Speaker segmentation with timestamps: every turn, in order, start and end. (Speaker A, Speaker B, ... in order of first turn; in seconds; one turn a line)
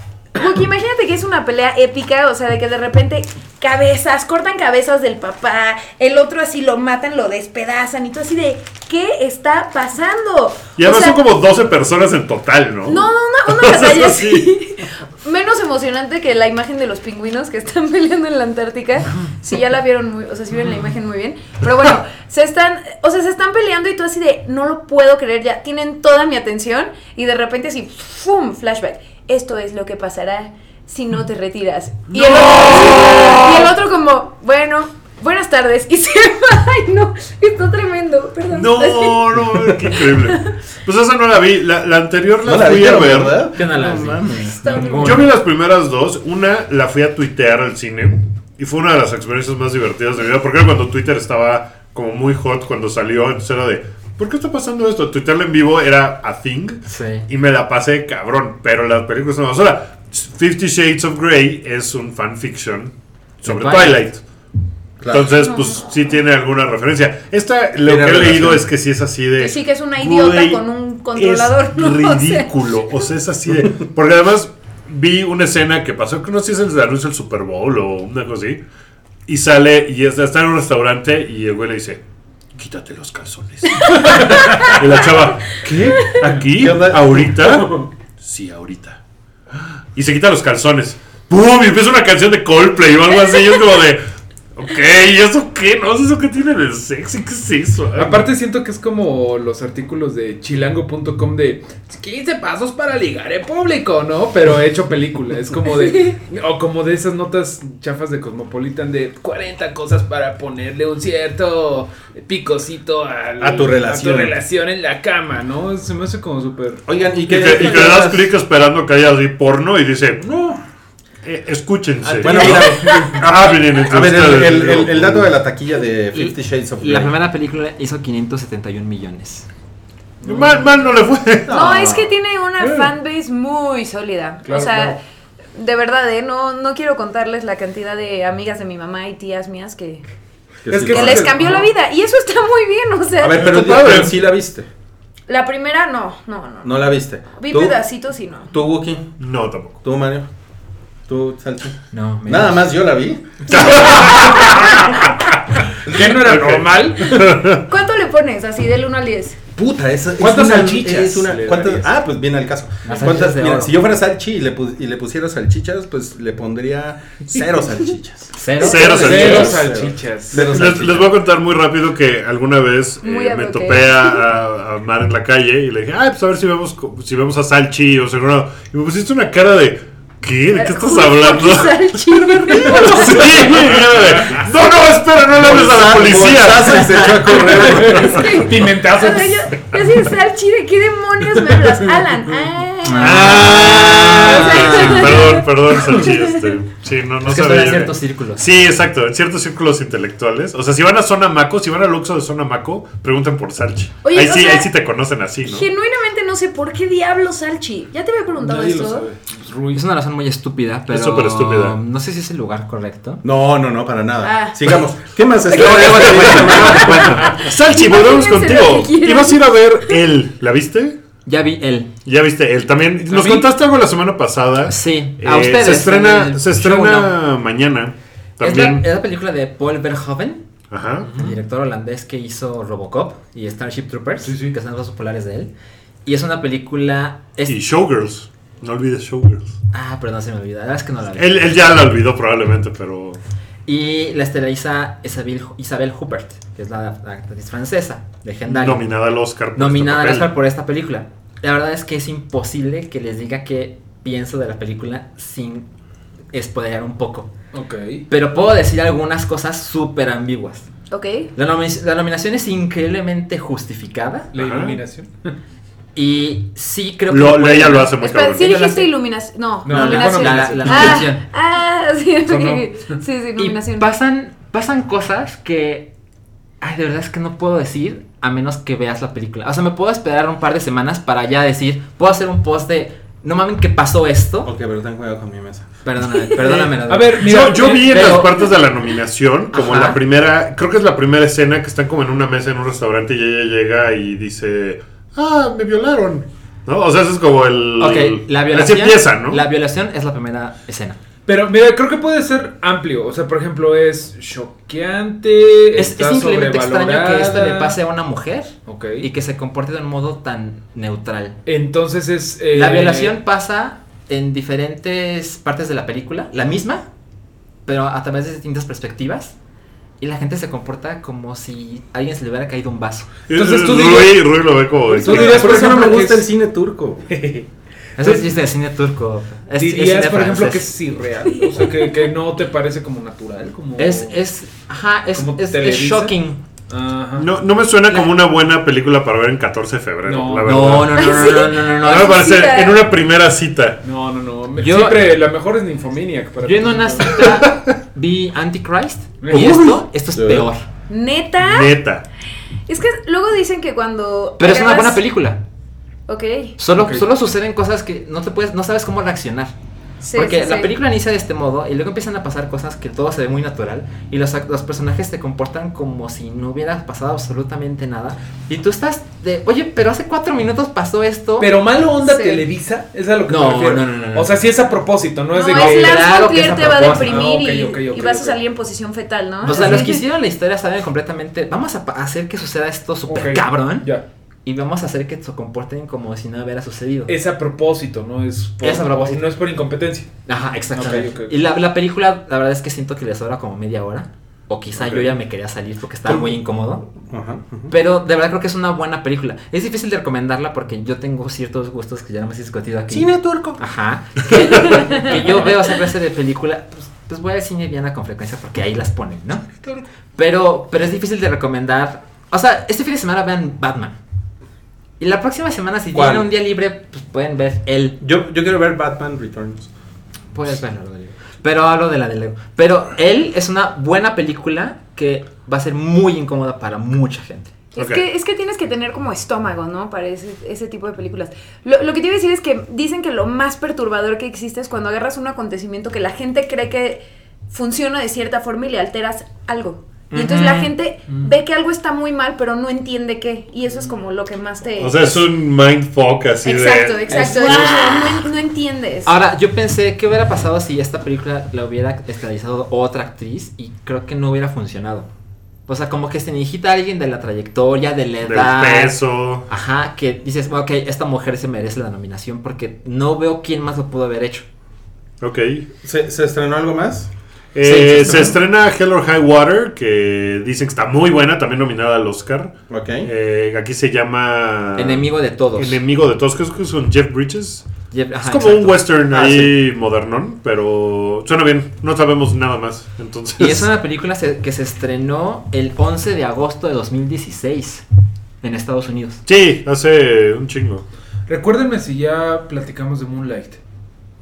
Speaker A: 0.3-11.2
Speaker B: 10.8-14.5
Speaker A: 12.8-39.3
Speaker B: 32.1-33.7
Speaker B: 38.5-43.5
Speaker A: 39.8-40.5
Speaker C: 42.4-44.9
Speaker D: 43.5-45.3
Speaker A: 44.6-45.3
Speaker B: 44.9-64.2
Speaker D: 56.9-57.3
Speaker D: 63.4-64.0
Speaker C: 65.0-65.3
Speaker B: 65.1-70.6
Speaker A: 65.3-66.2
Speaker C: 67.8-68.7
Speaker A: 69.4-73.0
Speaker B: 71.2-78.6
Speaker B: 79.3-82.0
Speaker B: 82.5-89.0
Speaker A: 83.8-84.9
Speaker C: 85.7-87.8
Speaker B: 89.5-94.0
Speaker B: 94.5-98.3
Speaker E: 98.0-116.8
Speaker A: 105.8-106.2
Speaker C: 113.4-114.4
Speaker C: 116.8-118.3
Speaker B: 117.3-120.2
Speaker B: 121.2-125.3
Speaker C: 122.0-127.1
Speaker E: 122.2-122.6
Speaker A: 122.7-123.1
Speaker D: 126.1-129.5
Speaker E: 130.2-130.8
Speaker B: 130.2-131.8
Speaker C: 131.4-132.1
Speaker A: 131.5-135.0
Speaker E: 134.4-134.9
Speaker A: 135.5-140.0
Speaker C: 140.6-141.3
Speaker E: 140.7-141.7
Speaker A: 140.9-143.5
Speaker C: 143.2-144.7
Speaker E: 143.4-144.1
Speaker A: 145.3-148.5
Speaker C: 146.6-147.8
Speaker C: 148.5-149.1
Speaker B: 149.2-149.8
Speaker C: 149.8-150.3
Speaker C: 151.1-153.9
Speaker D: 151.9-152.6
Speaker B: 153.5-155.0
Speaker A: 153.5-154.8
Speaker E: 155.8-157.3
Speaker C: 155.8-156.4
Speaker B: 156.2-157.6
Speaker A: 157.6-159.4
Speaker C: 159.6-171.1
Speaker E: 160.2-161.9
Speaker D: 162.8-163.7
Speaker D: 168.3-169.5
Speaker B: 168.6-169.7
Speaker E: 168.7-170.8
Speaker B: 170.3-187.3
Speaker A: 173.0-174.2
Speaker A: 180.5-183.5
Speaker C: 185.3-188.4
Speaker E: 187.3-189.6
Speaker A: 187.8-196.5
Speaker E: 191.5-192.0
Speaker D: 192.8-195.4
Speaker B: 193.0-205.7
Speaker D: 197.2-198.4
Speaker A: 204.0-204.7
Speaker A: 205.4-209.1
Speaker E: 208.4-209.8
Speaker D: 209.7-213.2
Speaker B: 210.9-211.8
Speaker C: 213.2-217.4
Speaker A: 214.2-214.7
Speaker A: 215.4-220.0
Speaker B: 215.5-221.0
Speaker D: 221.2-221.9
Speaker B: 222.0-228.9
Speaker E: 223.1-223.4
Speaker D: 223.1-223.4
Speaker D: 224.7-227.2
Speaker D: 228.4-230.4
Speaker B: 230.7-231.2
Speaker E: 231.0-231.3
Speaker D: 231.1-235.5
Speaker E: 234.2-234.6
Speaker D: 236.0-237.6
Speaker B: 237.5-239.5
Speaker D: 239.7-241.6
Speaker B: 241.1-243.2
Speaker D: 243.7-248.9
Speaker B: 248.4-250.3
Speaker D: 249.5-255.7
Speaker D: 256.3-257.3
Speaker E: 257.5-258.1
Speaker D: 258.1-260.7
Speaker A: 260.9-261.3
Speaker D: 261.3-264.3
Speaker E: 264.3-265.3
Speaker B: 264.4-264.8
Speaker D: 265.9-268.9
Speaker B: 267.1-268.5
Speaker A: 268.0-273.9
Speaker E: 269.6-271.0
Speaker D: 269.6-271.2
Speaker E: 272.3-272.7
Speaker D: 273.4-275.9
Speaker D: 276.6-284.5
Speaker C: 284.4-285.7
Speaker D: 285.8-288.5
Speaker E: 286.4-288.2
Speaker B: 287.2-299.4
Speaker D: 289.5-290.0
Speaker D: 297.8-301.0
Speaker E: 301.2-307.8
Speaker D: 305.8-311.4
Speaker E: 308.6-309.1
Speaker E: 311.4-313.2
Speaker D: 312.5-316.9
Speaker D: 317.6-319.3
Speaker D: 320.0-323.1
Speaker B: 323.3-325.8
Speaker E: 323.3-326.3
Speaker C: 324.9-327.1
Speaker E: 327.1-327.5
Speaker D: 328.0-330.7
Speaker E: 328.0-328.3
Speaker E: 329.6-334.1
Speaker A: 331.4-331.9
Speaker D: 333.8-336.4
Speaker E: 335.1-336.2
Speaker E: 336.7-337.3
Speaker B: 337.2-341.2
Speaker E: 340.0-340.8
Speaker D: 340.4-342.2
Speaker A: 340.9-342.8
Speaker B: 341.8-343.8
Speaker E: 343.8-347.2
Speaker D: 344.6-345.1
Speaker D: 346.4-350.6
Speaker E: 349.2-349.6
Speaker C: 349.3-350.5
Speaker A: 350.9-351.8
Speaker B: 351.4-352.0
Speaker A: 352.7-355.0
Speaker D: 354.4-355.4
Speaker A: 356.1-356.5
Speaker D: 356.6-359.5
Speaker E: 356.7-357.0
Speaker A: 360.0-360.7
Speaker D: 360.1-371.5
Speaker E: 371.4-378.4
Speaker A: 372.0-372.4
Speaker D: 373.3-374.4
Speaker A: 375.3-380.0
Speaker D: 375.5-377.3
Speaker D: 379.4-383.9
Speaker E: 379.4-379.9
Speaker E: 383.1-384.0
Speaker D: 384.4-387.1
Speaker E: 387.1-390.2
Speaker D: 388.6-389.2
Speaker D: 390.3-396.9
Speaker E: 390.7-391.4
Speaker C: 396.1-396.3
Speaker C: 397.0-397.7
Speaker D: 397.7-409.6
Speaker C: 402.9-403.6
Speaker D: 410.1-414.0
Speaker D: 415.0-418.0
Speaker C: 415.9-416.3
Speaker C: 418.0-419.7
Speaker D: 420.3-427.5
Speaker A: 427.7-445.2
Speaker B: 427.8-428.0
Speaker D: 440.1-440.7
Speaker B: 444.8-448.2
Speaker A: 446.4-449.1
Speaker D: 447.2-447.8
Speaker D: 449.1-455.1
Speaker D: 455.7-464.4
Speaker B: 458.2-459.5
Speaker B: 465.2-465.7
Speaker C: 465.8-467.1
Speaker B: 467.5-483.7
Speaker D: 467.6-468.4
Speaker C: 472.7-473.1
Speaker D: 474.8-475.8
Speaker D: 477.9-479.3
Speaker C: 479.1-479.5
Speaker D: 483.4-487.8
Speaker D: 488.4-489.2
Speaker B: 489.2-490.8
Speaker E: 491.3-493.6